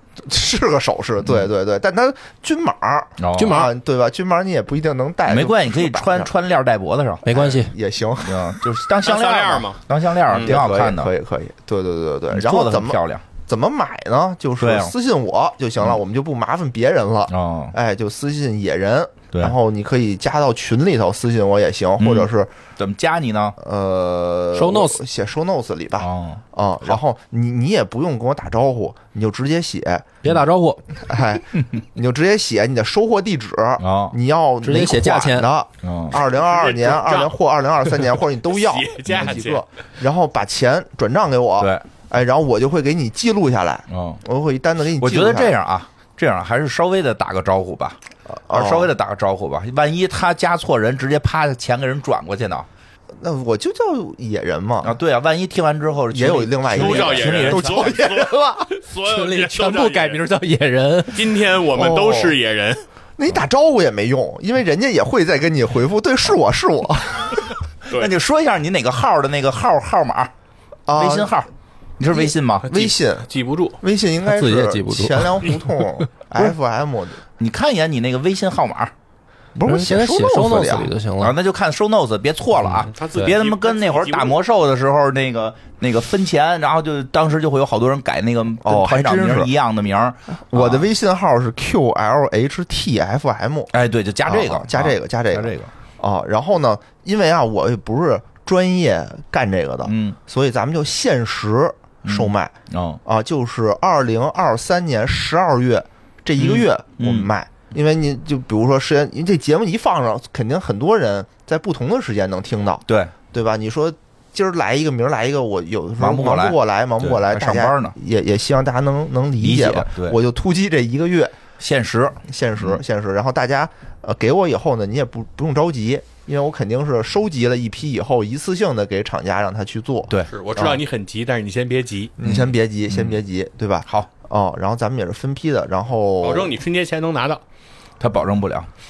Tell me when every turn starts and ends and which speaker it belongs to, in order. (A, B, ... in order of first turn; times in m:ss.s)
0:00.2-0:06.3 A
0:01.2-0:01.5 B
0:03.2-0:03.7 B
0:03.3-0:03.7 C
0:05.3-0:07.3 B
0:07.2-0:08.6 A
0:07.3-0:07.7 C
0:08.2-0:11.1 B
0:09.0-0:10.6 D
0:10.4-0:22.5 A
0:12.3-0:13.2 B
0:14.6-0:14.9 B
0:17.3-0:17.8 B
0:22.0-0:23.6 B
0:23.6-0:30.1 A
0:24.5-0:25.0 C
0:26.0-0:27.0 B
0:30.2-0:30.8 C
0:31.0-0:45.6 A
0:33.8-0:34.2 B
0:34.6-0:35.5 C
0:35.8-0:36.2 B
0:36.2-0:37.4 D
0:38.0-0:39.6 D
0:41.6-0:41.8 B
0:43.9-0:44.2 B
0:44.9-0:48.0 B
0:48.3-0:48.9 A
0:48.5-0:52.7 B
0:53.2-0:55.0 A
0:54.8-0:58.0 B
0:56.1-0:58.7 A
0:56.7-1:00.2 D
0:59.0-1:01.3 C
1:01.1-1:02.9 D
1:01.7-1:02.4 A
1:03.2-1:07.5 A
1:07.9-1:10.3 B
1:10.9-1:11.4 A
1:10.9-1:12.7 B
1:12.1-1:13.3 A
1:12.6-1:13.8 D
1:13.8-1:17.2 A
1:14.2-1:15.8 C
1:17.4-1:18.9 B
1:19.6-1:20.9 A
1:19.6-1:21.4 C
1:21.2-1:30.9 B
1:22.6-1:23.3 C
1:22.8-1:24.4 D
1:28.6-1:29.5 A
1:30.5-1:33.7 A
1:33.7-1:35.7 B
1:34.3-1:42.5 A
1:39.8-1:40.2 B
1:42.0-1:43.0 B
1:43.0-2:01.4 A
1:46.4-1:47.3 B
1:52.9-1:53.1 B
1:56.0-1:58.0 B
1:59.4-2:00.2 B
2:01.6-2:02.8 B
2:02.3-2:10.8 A
2:10.3-2:12.2 D
2:12.2-2:16.6 A
2:12.2-2:13.2 B
2:16.2-2:17.4 D
2:18.0-2:18.7 B